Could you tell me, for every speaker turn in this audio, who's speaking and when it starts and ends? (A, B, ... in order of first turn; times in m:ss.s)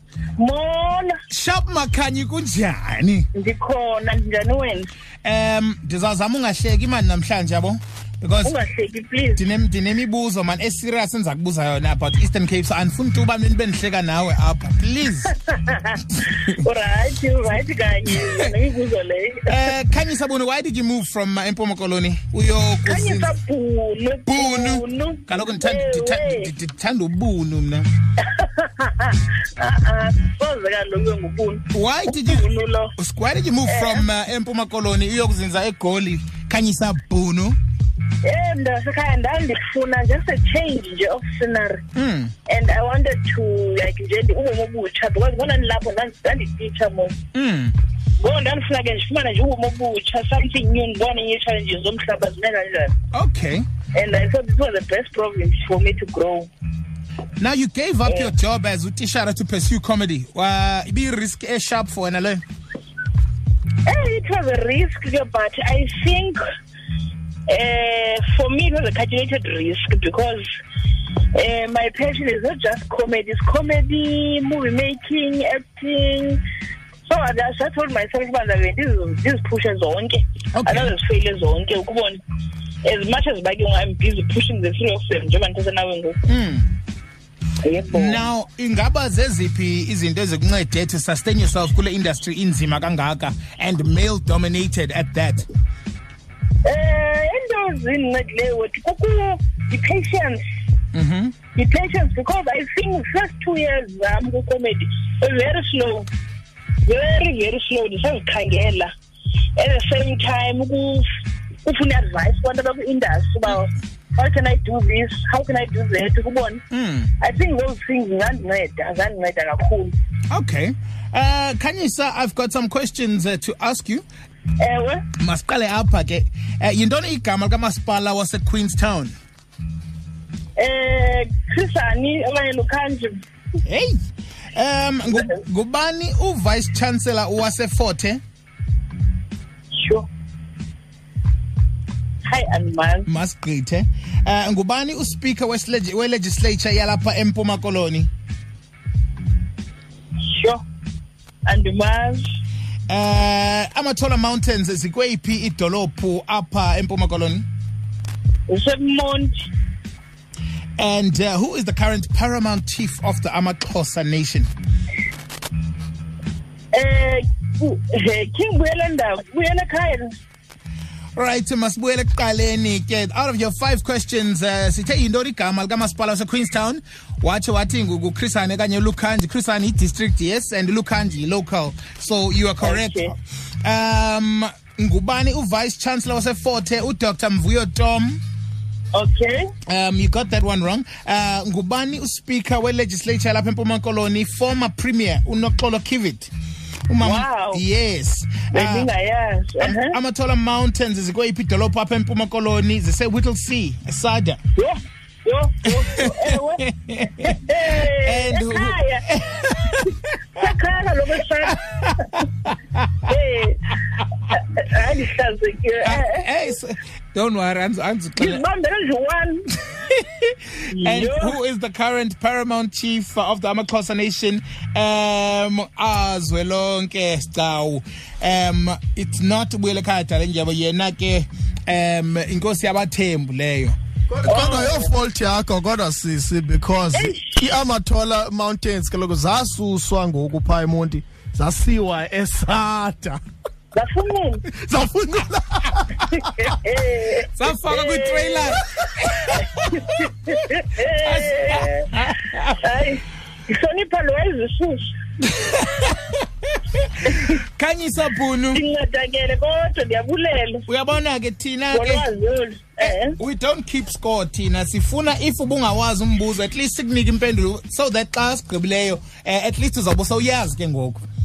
0:00.4-0:01.2 A
0:01.3-0:03.3 B
0:03.4-0:04.9 A
0:05.2-0:08.5 B
0:08.4-0:09.4 A
0:09.4-0:15.3 B
0:15.5-0:19.6 A
0:19.5-0:23.4 B
0:22.8-0:26.5 A
0:24.3-0:27.9 B
0:28.2-0:32.9 A
0:31.7-0:32.4 B
0:33.0-0:37.6 B
0:33.7-0:34.0 A
0:38.2-0:41.8 A
0:42.0-0:42.3 B
0:42.5-0:47.2 A
0:47.3-0:47.8 B
0:48.2-0:52.9 A
0:53.1-0:53.7 B
0:53.9-0:56.5 A
0:57.4-1:02.4 B
0:58.1-0:58.3 A
1:03.9-1:06.4 A
1:07.5-1:10.4 A
1:11.3-1:16.4 A
1:17.0-1:22.2 A
1:20.5-1:20.9 B
1:22.8-1:26.2 A
1:26.3-1:26.7 B
1:27.6-1:28.2 A
1:27.9-1:35.5 B
1:36.6-1:40.4 A
1:40.9-1:41.4 B
1:41.5-1:46.1 A
1:46.8-1:48.9 A
1:49.6-1:51.1 A
1:51.6-1:56.6 A
1:56.7-1:57.1 B
1:57.2-1:59.9 A
2:00.3-2:04.0 B
2:04.6-2:05.0 A
2:05.2-2:09.2 B
2:10.6-2:13.2 A
2:13.6-2:13.9 B
2:14.6-2:18.2 B
2:19.7-2:20.1 A
2:22.2-2:23.1 A
2:23.1-2:28.1 B
2:30.2-2:30.6 A
2:31.5-2:32.2 A
2:32.9-2:37.4 B
2:38.5-2:39.5 A
2:40.8-2:44.5 B
2:46.7-2:50.1 A
2:51.2-3:03.1 B
3:02.6-3:03.1 A
3:03.6-3:08.2 B
3:08.9-3:09.5 A
3:09.7-3:16.3 B
3:16.9-3:18.9 B
3:17.0-3:17.6 A
3:18.5-3:20.0 A
3:19.6-3:24.4 B
3:24.6-3:26.6 A
3:25.9-3:29.9 B
3:27.2-3:29.0 A
3:30.4-3:32.2 A
3:32.5-3:32.8 B
3:33.1-3:33.8 A
3:34.3-3:36.2 A
3:35.8-3:38.4 B
3:38.2-3:39.5 A
3:39.9-3:53.8 B
3:40.7-3:41.3 A
3:54.1-4:03.2 C
3:54.2-3:54.9 A
3:56.9-3:57.4 A
4:03.7-4:04.4 A
4:04.5-4:06.3 C
4:06.2-4:08.6 A
4:07.3-4:10.1 B
4:09.3-4:11.9 A
4:11.0-4:12.6 B
4:12.6-4:14.9 A
4:15.3-4:16.0 B
4:16.8-4:18.6 B
4:18.5-4:20.6 A
4:20.7-4:22.0 B
4:21.7-4:23.2 A
4:22.8-4:31.0 B